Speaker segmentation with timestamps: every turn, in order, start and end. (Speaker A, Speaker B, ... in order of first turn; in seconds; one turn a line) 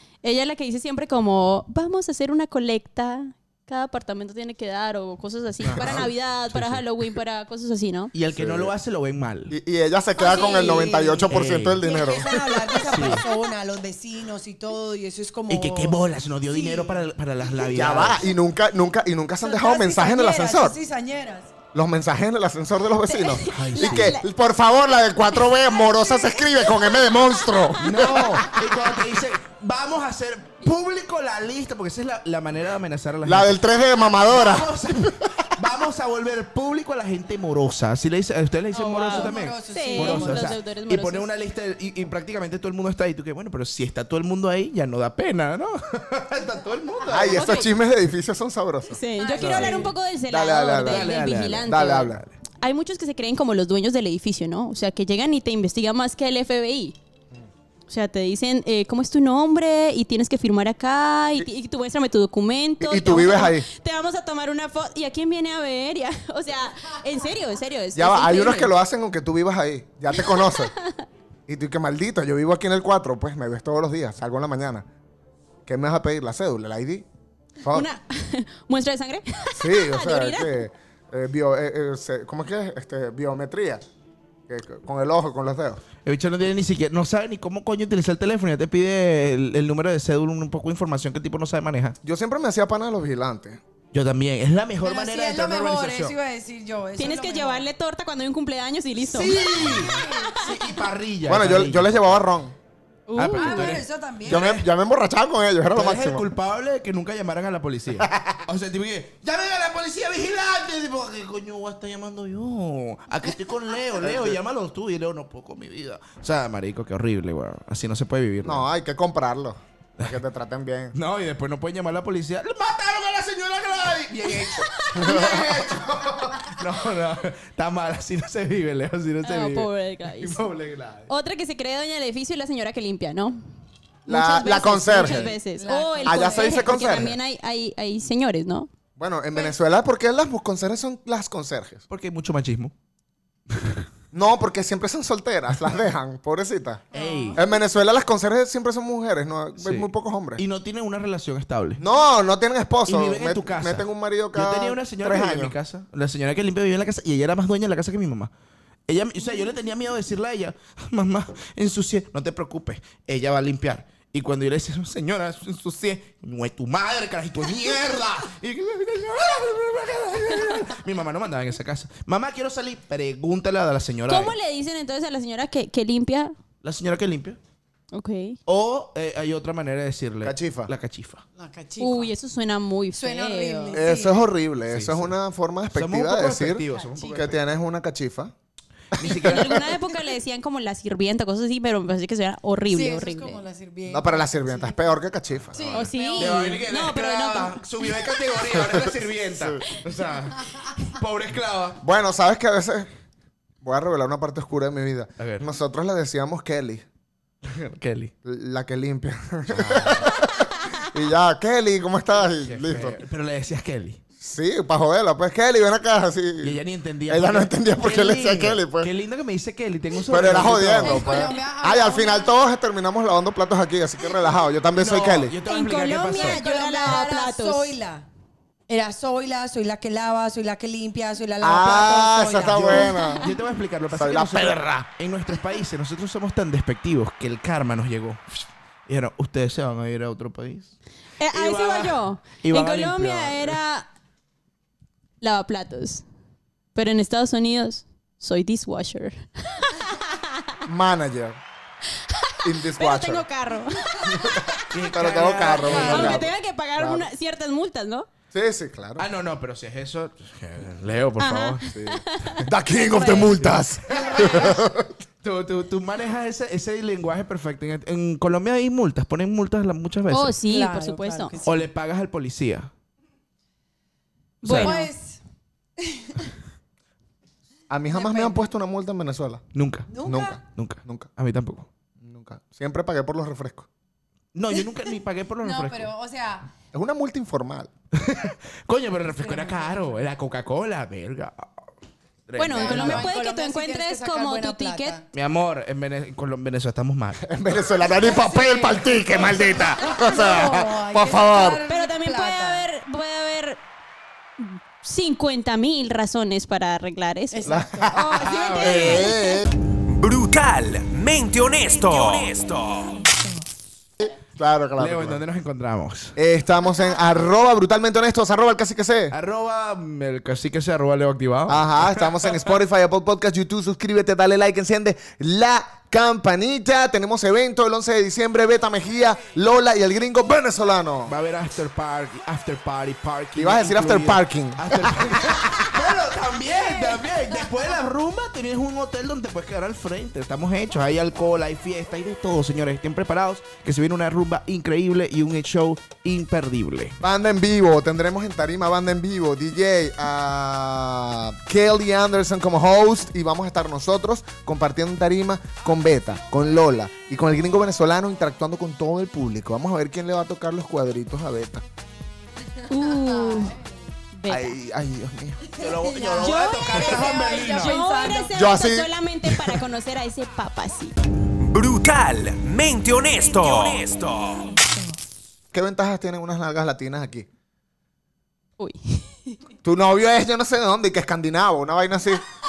Speaker A: 0.2-8.1
Speaker B: 5.6-6.8
Speaker C: 5.8-6.0
Speaker B: 8.1-9.6
Speaker C: 8.3-8.7
Speaker C: 9.5-12.6
Speaker D: 10.2-11.3
Speaker A: 10.2-11.0
Speaker B: 11.3-13.2
Speaker D: 11.8-17.1
Speaker B: 15.5-18.3
Speaker C: 17.7-20.8
Speaker D: 19.4-21.5
Speaker C: 21.7-28.6
Speaker A: 23.1-24.3
Speaker B: 23.5-24.1
Speaker A: 25.3-27.8
Speaker B: 27.8-33.6
Speaker C: 33.2-35.5
Speaker B: 34.2-47.5
Speaker D: 38.8-40.5
Speaker A: 38.8-41.3
Speaker C: 47.1-49.7
Speaker A: 47.3-47.7
Speaker A: 48.9-57.0
Speaker D: 49.2-49.9
Speaker B: 49.4-49.7
Speaker C: 50.3-52.2
Speaker B: 50.9-52.3
Speaker A: 57.9-68.7
Speaker C: 62.8-63.7
Speaker C: 68.0-70.7
Speaker A: 70.2-70.7
Speaker C: 71.5-74.9
Speaker C: 75.7-77.1
Speaker C: 77.6-77.9
Speaker A: 77.7-80.7
Speaker C: 79.5-83.8
Speaker C: 84.5-85.8
Speaker B: 86.0-92.0
Speaker C: 92.0-93.6
Speaker B: 93.9-96.2
Speaker D: 94.8-97.7
Speaker A: 97.0-99.4
Speaker B: 99.0-102.3
Speaker D: 99.8-100.5
Speaker C: 101.3-102.5
Speaker A: 103.1-103.8
Speaker B: 103.2-104.7
Speaker D: 103.3-104.5
Speaker C: 104.2-106.3
Speaker B: 105.7-118.7
Speaker C: 108.0-108.4
Speaker C: 114.0-114.4
Speaker C: 118.4-121.0
Speaker B: 120.9-131.1
Speaker C: 125.0-125.8
Speaker A: 129.2-130.4
Speaker A: 131.1-133.4
Speaker A: 134.1-138.7
Speaker C: 134.1-135.4
Speaker D: 135.0-137.1
Speaker C: 136.1-137.2
Speaker C: 139.0-141.8
Speaker B: 141.9-142.7
Speaker B: 143.5-143.8
Speaker C: 144.1-150.4
Speaker B: 146.9-147.4
Speaker D: 146.9-147.5
Speaker B: 149.6-151.8
Speaker C: 151.8-155.6
Speaker B: 152.9-158.3
Speaker B: 158.9-174.3
Speaker A: 174.1-176.3
Speaker B: 176.6-177.4
Speaker A: 177.9-178.4
Speaker B: 178.5-181.2
Speaker C: 180.2-180.7
Speaker D: 181.4-182.1
Speaker A: 181.8-183.8
Speaker D: 182.9-184.2
Speaker C: 183.7-188.3
Speaker B: 184.7-185.1
Speaker B: 185.7-187.4
Speaker D: 186.7-187.2
Speaker C: 188.9-189.6
Speaker B: 188.9-189.6
Speaker A: 189.0-193.4
Speaker D: 192.7-194.8
Speaker C: 193.9-195.9
Speaker D: 195.5-196.6
Speaker A: 195.7-197.9
Speaker B: 196.1-201.8
Speaker C: 198.5-199.6
Speaker C: 201.8-202.9
Speaker C: 203.6-206.8
Speaker B: 205.2-205.5
Speaker B: 207.4-208.1
Speaker C: 208.2-213.0
Speaker B: 209.5-210.1
Speaker B: 212.4-214.0
Speaker C: 214.2-218.9
Speaker B: 216.4-221.2
Speaker C: 220.1-225.3
Speaker D: 220.8-222.3
Speaker B: 224.8-226.4
Speaker A: 225.5-227.8
Speaker D: 226.2-228.1
Speaker D: 228.7-233.2
Speaker C: 231.4-233.2
Speaker B: 232.5-240.8
Speaker C: 233.9-234.9
Speaker A: 241.2-243.9
Speaker B: 241.3-243.6
Speaker A: 245.2-246.0
Speaker A: 246.8-250.5
Speaker C: 250.7-251.4
Speaker A: 252.1-254.5
Speaker C: 252.4-253.2
Speaker C: 254.1-257.1
Speaker B: 254.7-256.2
Speaker D: 255.4-256.2
Speaker A: 255.6-258.1
Speaker C: 258.3-259.1
Speaker B: 259.0-261.8
Speaker A: 261.2-263.3
Speaker C: 261.7-265.0
Speaker B: 263.2-264.5
Speaker D: 263.9-264.6
Speaker B: 265.2-270.4
Speaker A: 270.1-271.4
Speaker D: 270.4-271.6
Speaker B: 271.4-272.7
Speaker A: 274.4-274.9
Speaker B: 274.4-274.9
Speaker D: 274.5-275.2
Speaker D: 275.8-276.3
Speaker C: 277.7-279.4
Speaker D: 277.9-278.4
Speaker B: 279.5-279.9
Speaker D: 279.9-280.4
Speaker C: 280.0-281.1
Speaker B: 280.5-281.7
Speaker C: 282.0-283.7
Speaker B: 284.3-285.9
Speaker D: 285.4-286.5
Speaker C: 286.7-287.7
Speaker B: 287.9-291.5
Speaker D: 289.2-290.0
Speaker B: 292.3-293.1
Speaker A: 292.4-295.0
Speaker D: 292.5-295.1
Speaker B: 295.1-297.2
Speaker C: 297.2-301.6
Speaker D: 297.9-302.6
Speaker A: 301.7-303.6
Speaker A: 304.4-309.4
Speaker D: 307.3-309.1
Speaker C: 307.4-309.5
Speaker B: 308.2-309.1
Speaker E: 309.9-313.1
Speaker C: 314.0-315.2
Speaker B: 314.8-316.1
Speaker C: 316.2-319.1
Speaker B: 319.1-322.4
Speaker C: 321.5-331.1
Speaker B: 331.1-347.0
Speaker C: 333.4-335.7
Speaker C: 347.0-361.6
Speaker D: 362.6-363.9
Speaker A: 362.7-363.6
Speaker A: 364.1-364.6
Speaker C: 364.3-365.4
Speaker B: 365.5-367.8
Speaker D: 365.5-368.3
Speaker A: 366.2-370.9
Speaker C: 368.3-368.9
Speaker E: 371.4-374.6
Speaker C: 375.5-377.3
Speaker A: 378.6-379.3
Speaker C: 379.6-382.2